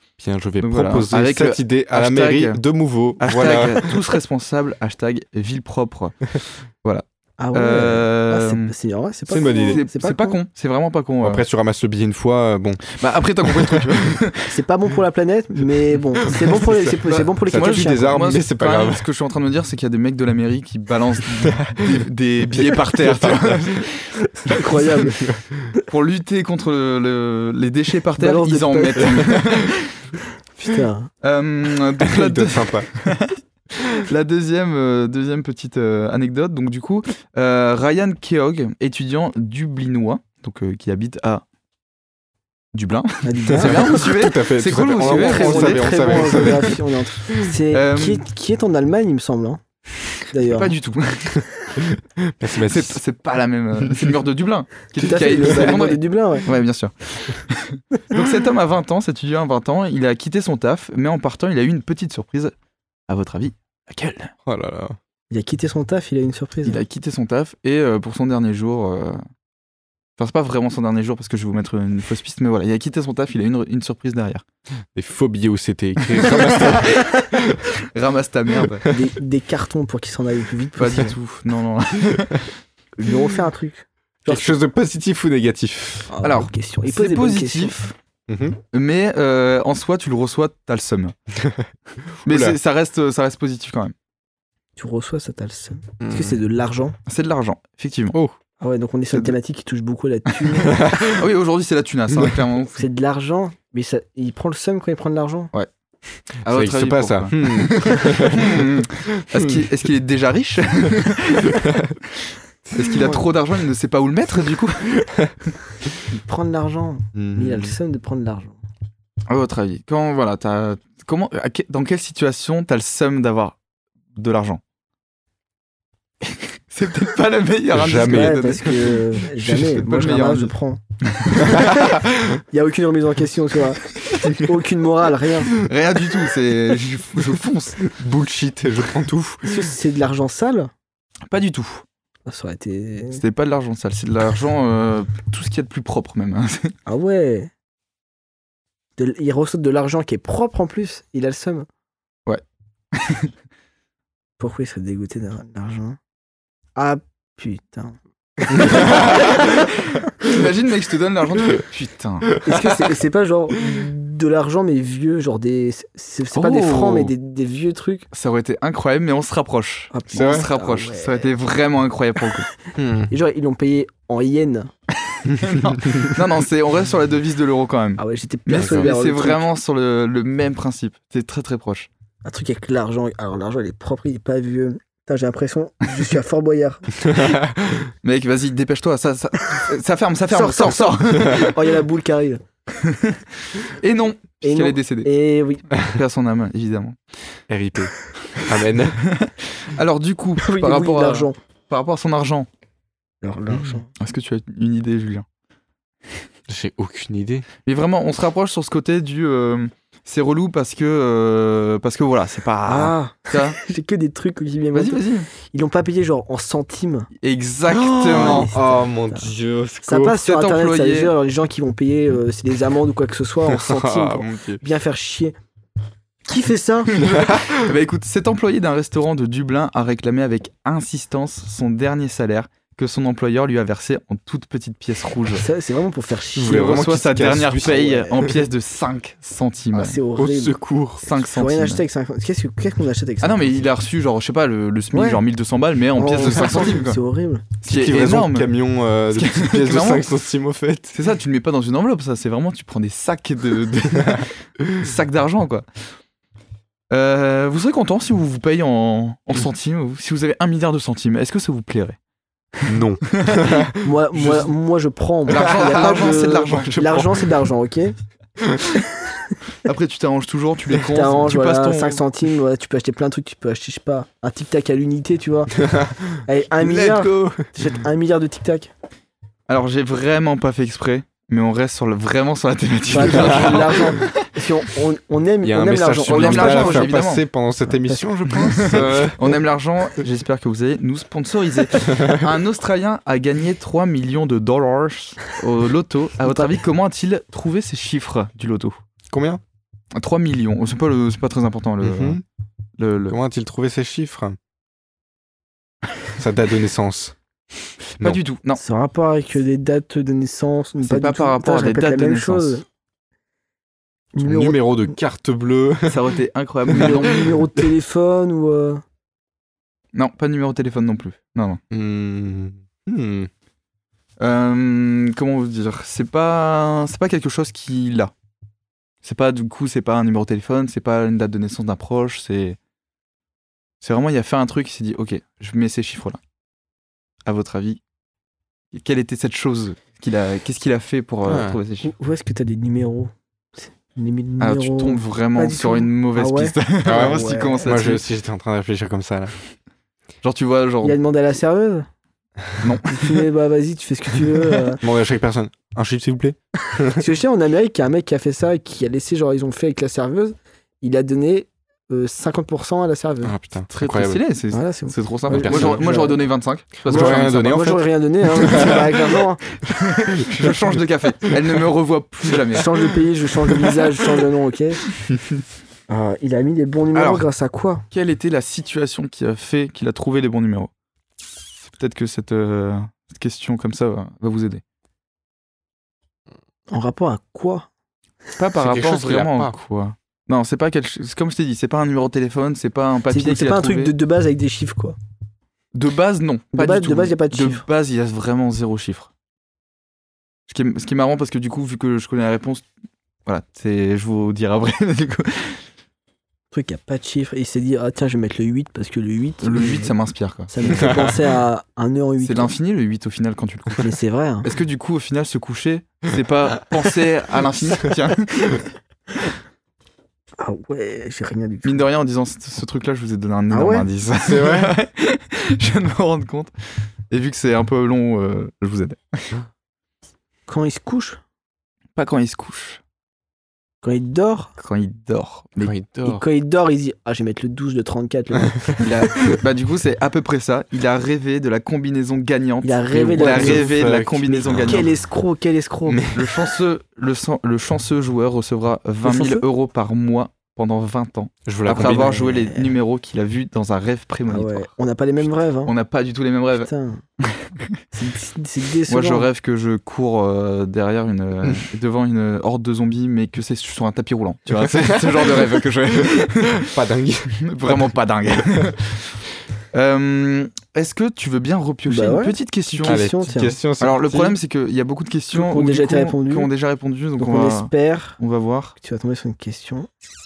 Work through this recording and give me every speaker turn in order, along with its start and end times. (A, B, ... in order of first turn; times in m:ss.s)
0:00.2-0:04.0 A
0:00.6-0:02.6 B
0:03.2-0:08.7 B
0:07.4-0:10.4 C
0:09.3-0:09.8 A
0:09.3-0:11.4 B
0:11.2-0:12.8 A
0:12.9-0:14.5 B
0:13.5-0:13.8 A
0:14.5-0:18.3 C
0:16.2-0:19.0 A
0:17.1-0:24.6 B
0:21.6-0:22.0 A
0:22.5-0:23.8 A
0:24.5-0:25.2 C
0:25.0-0:25.7 A
0:25.9-0:29.9 B
0:28.2-0:29.4 C
0:30.6-0:31.1 C
0:31.2-0:41.4 B
0:32.0-0:32.9 A
0:42.7-0:46.8 B
0:43.2-0:44.1 C
0:43.5-0:46.8 A
0:45.0-0:49.6 C
0:47.7-0:48.2 B
0:50.3-0:50.7 C
0:50.4-0:51.4 B
0:51.8-0:53.0 A
0:52.6-1:02.5 B
0:53.8-0:54.1 A
0:55.0-0:56.5 C
1:03.1-1:04.3 B
1:04.4-1:05.0 A
1:05.3-1:06.8 C
1:06.6-1:09.2 B
1:10.2-1:14.4 B
1:14.9-1:17.6 A
1:16.1-1:17.1 B
1:17.8-1:18.8 B
1:18.9-1:21.1 C
1:20.8-1:22.5 B
1:23.0-1:24.6 C
1:24.3-1:26.1 A
1:26.1-1:27.8 C
1:26.2-1:27.9 B
1:28.3-1:28.6 A
1:28.7-1:31.1 B
1:31.4-1:31.7 A
1:32.2-1:33.9 B
1:32.2-1:32.6 A
1:34.8-1:37.0 C
1:36.0-1:36.4 A
1:37.1-1:38.2 B
1:38.6-1:40.8 C
1:40.4-1:42.8 B
1:40.7-1:41.2 A
1:42.8-1:45.5 C
1:46.4-1:51.6 B
1:46.4-1:48.6 A
1:49.2-1:49.6 A
1:51.4-1:51.9 A
1:52.7-1:53.1 A
1:52.8-1:55.0 B
1:56.1-1:58.6 C
1:57.1-1:57.8 A
1:59.3-2:03.6 B
2:04.1-2:04.6 B
2:06.7-2:10.5 B
2:07.7-2:08.4 A
2:08.0-2:10.8 C
2:11.1-2:11.6 B
2:11.4-2:12.0 C
2:11.4-2:12.4 A
2:12.5-2:15.5 C
2:15.5-2:17.9 B
2:17.9-2:19.5 A
2:19.4-2:20.7 C
2:21.3-2:21.8 B
2:22.3-2:23.2 C
2:23.1-2:26.7 B
2:26.8-2:27.5 C
2:29.0-2:31.7 C
2:32.9-2:33.3 B
2:34.4-2:36.0 C
2:36.8-2:39.5 C
2:38.7-2:39.1 A
2:38.7-2:42.4 B
2:42.4-2:48.1 C
2:46.3-2:47.1 B
2:48.1-2:52.5 B
2:49.9-2:51.3 C
2:50.1-2:50.5 A
2:52.8-2:53.1 A
2:53.1-2:54.7 C
2:55.1-3:01.9 B
2:55.3-2:56.2 A
2:58.0-2:59.4 C
2:58.6-2:58.9 A
3:02.2-3:06.9 C
3:07.0-3:07.9 A
3:08.0-3:11.5 B
3:10.3-3:12.4 C
3:12.8-3:15.1 B
3:14.4-3:15.7 C
3:15.8-3:17.0 B
3:17.5-3:19.0 A
3:19.0-3:22.5 B
3:20.4-3:21.4 C
3:23.2-3:23.9 C
3:23.5-3:23.8 A
3:24.0-3:25.2 B
3:26.5-3:27.4 A
3:27.6-3:33.6 B
3:32.7-3:37.1 C
3:34.7-3:35.3 B
3:37.2-3:38.5 B
3:37.7-3:40.2 A
3:38.1-3:39.3 C
3:39.8-3:45.3 C
3:40.1-3:41.1 B
3:43.5-3:44.6 A
3:46.3-3:46.9 C
3:46.9-3:55.4 B
3:47.1-3:47.7 A
3:55.4-3:56.8 C
3:56.3-3:58.3 A
3:56.4-4:00.0 B
3:57.6-3:58.2 C
3:59.7-4:00.6 C
4:00.2-4:01.0 A
4:01.0-4:01.8 B
4:01.1-4:03.6 C
4:03.2-4:07.0 B
4:04.9-4:05.2 C
4:06.0-4:07.5 C
4:07.6-4:08.5 B
4:07.6-4:10.9 A
4:09.1-4:10.1 B
4:10.9-4:15.6 B
4:16.9-4:22.0 B
4:22.6-4:24.5 B
4:22.6-4:23.8 A
4:23.8-4:27.9 C
4:25.3-4:27.2 B
4:25.3-4:26.2 A
4:29.6-4:32.0 B
4:30.9-4:35.6 C
4:35.6-4:37.4 A
4:36.2-4:38.7 C
4:39.5-4:44.2 B
4:42.9-4:46.9 C
4:43.1-4:43.8 A
4:45.4-4:49.3 A
4:46.1-4:47.2 B
4:47.7-4:48.0 C
4:48.4-4:58.8 B
4:51.9-4:52.2 A
4:59.1-4:59.4 A
4:59.9-5:02.2 B
5:01.8-5:02.2 A
5:02.8-5:03.2 B
5:03.0-5:04.4 A
5:06.1-5:07.2 A
5:08.0-5:08.6 B
5:08.6-5:12.6 C
5:10.8-5:12.6 B
5:14.1-5:14.6 C
5:14.2-5:16.1 A
5:15.8-5:17.4 B
5:16.7-5:17.6 A
5:16.7-5:18.8 C
5:19.9-5:21.6 B
5:21.7-5:23.3 A
5:24.2-5:28.1 B
5:29.0-5:32.6 B
5:33.8-5:36.2 B
5:37.2-5:37.8 B
5:38.7-5:41.9 B
5:41.2-5:41.6 A
5:41.8-5:47.8 C
5:44.4-5:48.0 B
5:46.8-5:49.3 A
5:50.2-5:51.0 B
5:50.8-5:51.9 C
5:52.6-5:53.2 B
5:52.9-5:54.8 C
5:54.8-5:57.0 A
5:56.9-6:03.3 C
6:03.2-6:04.2 A
6:03.7-6:07.5 B
6:04.5-6:06.2 C
6:05.3-6:05.9 A
6:06.8-6:08.9 A
6:06.8-6:09.4 C
6:08.4-6:08.8 B
6:09.6-6:12.7 B
6:10.2-6:10.5 A
6:12.5-6:14.8 C
6:15.9-6:17.8 C
6:16.9-6:17.2 B
6:17.9-6:20.7 B
6:21.8-6:24.6 B
6:26.7-6:27.7 C
6:28.4-6:33.9 B
6:28.6-6:29.5 A
6:33.1-6:35.0 C
6:35.7-6:39.1 B
6:36.5-6:37.6 C
6:40.5-6:42.6 B
6:43.2-6:45.6 B
6:46.5-6:49.9 C
6:49.4-6:51.0 B
6:50.5-6:52.5 C
6:50.7-6:51.1 A
6:52.2-6:53.9 B
6:53.8-6:54.5 C
6:54.4-6:58.7 B
7:00.4-7:01.8 C
7:01.6-7:06.5 B
7:03.5-7:03.8 C
7:04.2-7:04.7 A
7:07.1-7:09.4 B
7:10.5-7:11.2 C
7:11.9-7:12.8 B
7:13.8-7:14.5 C
7:14.6-7:15.7 B
7:15.6-7:16.2 A
7:16.0-7:18.7 C
7:18.8-7:24.9 B
7:22.6-7:23.7 C
7:23.1-7:24.8 A
7:24.5-7:26.0 C
7:25.8-7:26.5 A
7:26.1-7:34.7 B
7:29.0-7:29.4 C
7:31.4-7:32.2 A
7:31.8-7:32.7 C
7:34.3-7:35.7 C
7:35.6-7:36.7 B
7:36.6-7:37.0 C
7:37.2-7:37.7 B
7:37.9-7:39.3 C
7:38.9-7:46.7 B
7:44.6-7:47.9 A
7:47.4-7:53.0 B
7:51.9-7:53.6 C
7:52.8-7:54.4 A
7:53.8-7:58.7 B
7:55.3-7:56.5 C
7:57.2-7:58.2 C
7:58.8-7:59.9 C